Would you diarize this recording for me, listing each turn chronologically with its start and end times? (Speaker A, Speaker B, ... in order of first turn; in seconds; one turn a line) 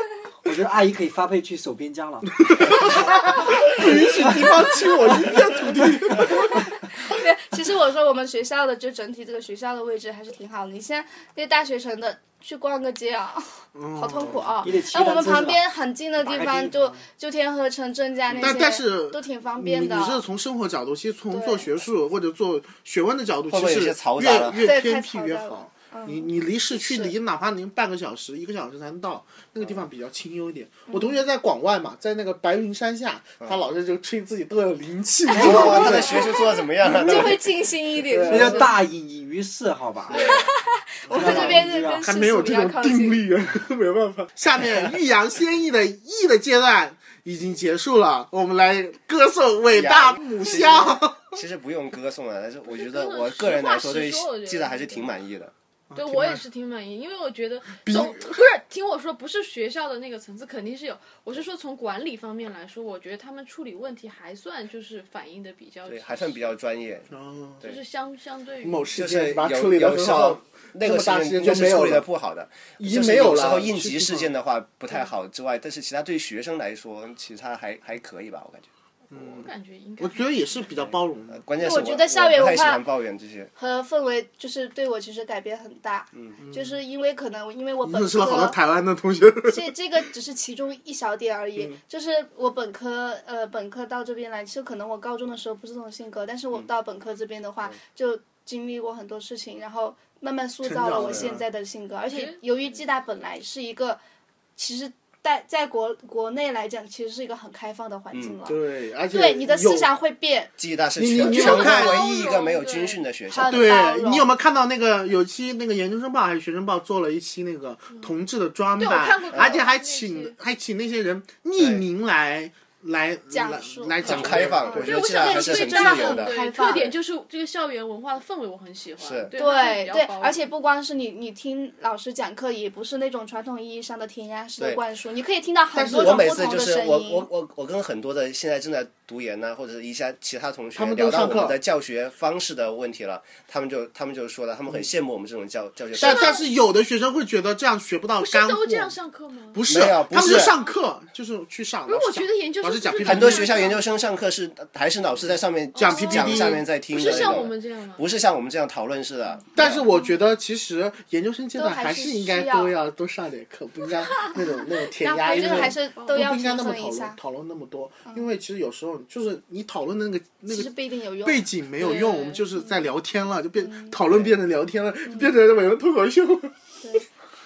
Speaker A: 0.4-4.5
Speaker B: 2.4-6.6
Speaker C: 6.5-20.2
Speaker B: 13.7-14.6
Speaker A: 14.6-15.6
Speaker A: 16.2-17.0
Speaker D: 18.3-18.6
Speaker B: 18.4-37.4
Speaker C: 21.3-21.7
Speaker D: 23.5-24.6
Speaker C: 24.6-26.3
Speaker C: 30.9-31.2
Speaker D: 35.3-37.5
Speaker C: 35.4-38.7
Speaker B: 38.0-38.7
Speaker A: 38.3-40.3
Speaker C: 40.1-43.2
Speaker D: 40.1-40.5
Speaker B: 41.1-51.4
Speaker A: 41.1-42.0
Speaker D: 49.7-55.5
Speaker E: 52.6-55.1
Speaker B: 55.9-56.4
Speaker E: 55.9-66.5
Speaker B: 57.8-58.4
Speaker D: 65.9-67.1
Speaker B: 67.1-67.6
Speaker E: 67.6-68.9
Speaker B: 68.6-72.0
Speaker D: 68.9-78.7
Speaker B: 72.8-74.3
Speaker B: 79.1-81.4
Speaker E: 79.2-80.7
Speaker D: 80.7-83.5
Speaker C: 81.6-82.8
Speaker C: 83.5-88.5
Speaker D: 86.1-86.4
Speaker B: 86.4-86.8
Speaker B: 87.8-89.7
Speaker C: 89.5-104.0
Speaker B: 100.6-101.4
Speaker E: 102.1-102.4
Speaker C: 104.5-108.6
Speaker D: 108.1-108.4
Speaker B: 108.5-109.9
Speaker C: 109.1-110.5
Speaker D: 110.6-113.8
Speaker B: 111.0-112.0
Speaker E: 111.2-113.0
Speaker C: 113.3-114.3
Speaker B: 113.4-124.9
Speaker E: 118.8-120.3
Speaker D: 119.3-119.6
Speaker D: 121.6-121.8
Speaker C: 123.3-126.9
Speaker D: 124.0-126.9
Speaker E: 124.0-130.5
Speaker D: 129.0-129.3
Speaker C: 129.3-137.3
Speaker B: 135.7-136.5
Speaker D: 135.9-146.4
Speaker B: 140.8-141.6
Speaker E: 146.0-146.5
Speaker B: 146.0-148.9
Speaker E: 148.2-149.6
Speaker B: 149.5-153.7
Speaker D: 149.7-150.5
Speaker E: 151.9-153.9
Speaker D: 153.0-159.8
Speaker E: 155.7-158.0
Speaker B: 155.8-157.4
Speaker B: 159.5-170.7
Speaker C: 161.6-162.7
Speaker C: 165.0-167.2
Speaker E: 165.2-166.2
Speaker C: 170.5-171.5
Speaker B: 171.2-176.5
Speaker E: 171.8-172.4
Speaker C: 173.6-173.9